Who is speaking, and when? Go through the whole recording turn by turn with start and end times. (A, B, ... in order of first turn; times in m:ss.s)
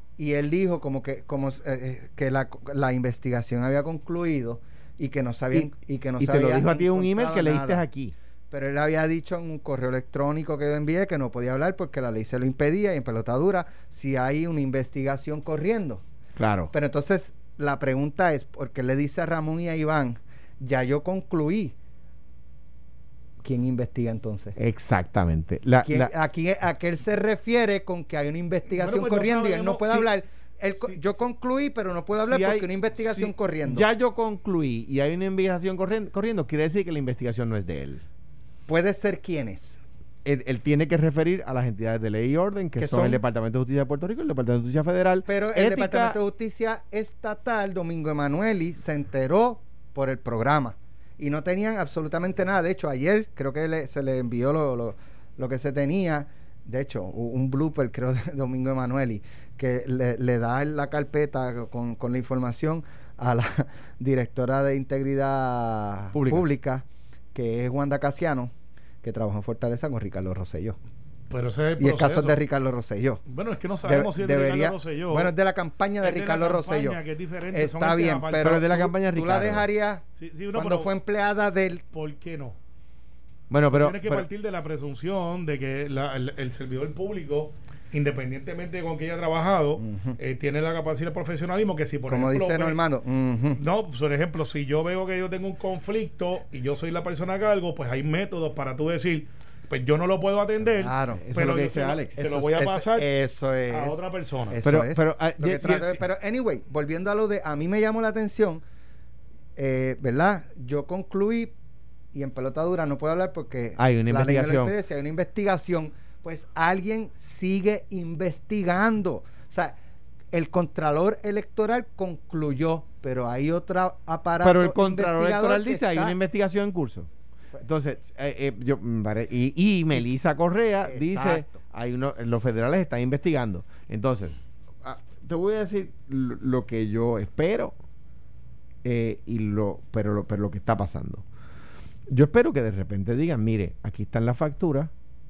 0:00.2-0:07.8 A
0:05.5-0:08.1 B
0:08.5-0:16.0 A
0:16.4-0:16.7 B
0:16.7-0:21.7 A
0:23.4-0:24.6 A
0:24.6-0:26.1 B
0:25.8-0:33.8 A
0:28.7-0:30.1 C
0:32.1-0:38.0 B
0:38.7-0:39.8 A
0:40.2-0:46.2 B
0:42.8-0:43.2 A
0:45.3-1:08.5 A
1:06.1-1:06.4 B
1:09.0-1:10.8 A
1:11.3-1:12.4 C
1:11.8-1:13.2 A
1:13.3-1:15.3 C
1:13.8-1:17.0 A
1:16.0-1:18.6 C
1:17.5-1:20.0 A
1:18.4-1:19.6 B
1:20.2-1:20.9 C
1:20.5-1:21.8 A
1:21.9-1:22.6 C
1:23.5-1:24.2 B
1:23.7-1:32.8 C
1:29.8-1:30.2 A
1:32.1-1:33.6 A
1:33.6-1:43.1 C
1:40.8-1:41.2 A
1:41.2-1:42.1 B
1:42.2-1:44.0 A
1:43.7-1:44.6 C
1:44.5-1:48.6 A
1:44.6-1:46.0 B
1:49.6-1:51.5 A
1:52.1-1:59.8 A
1:53.8-1:54.7 B
2:00.3-2:06.1 A
2:04.4-2:07.1 B
2:07.6-2:17.7 B
2:10.8-2:11.6 A
2:18.8-2:21.2 B
2:22.1-2:24.9 B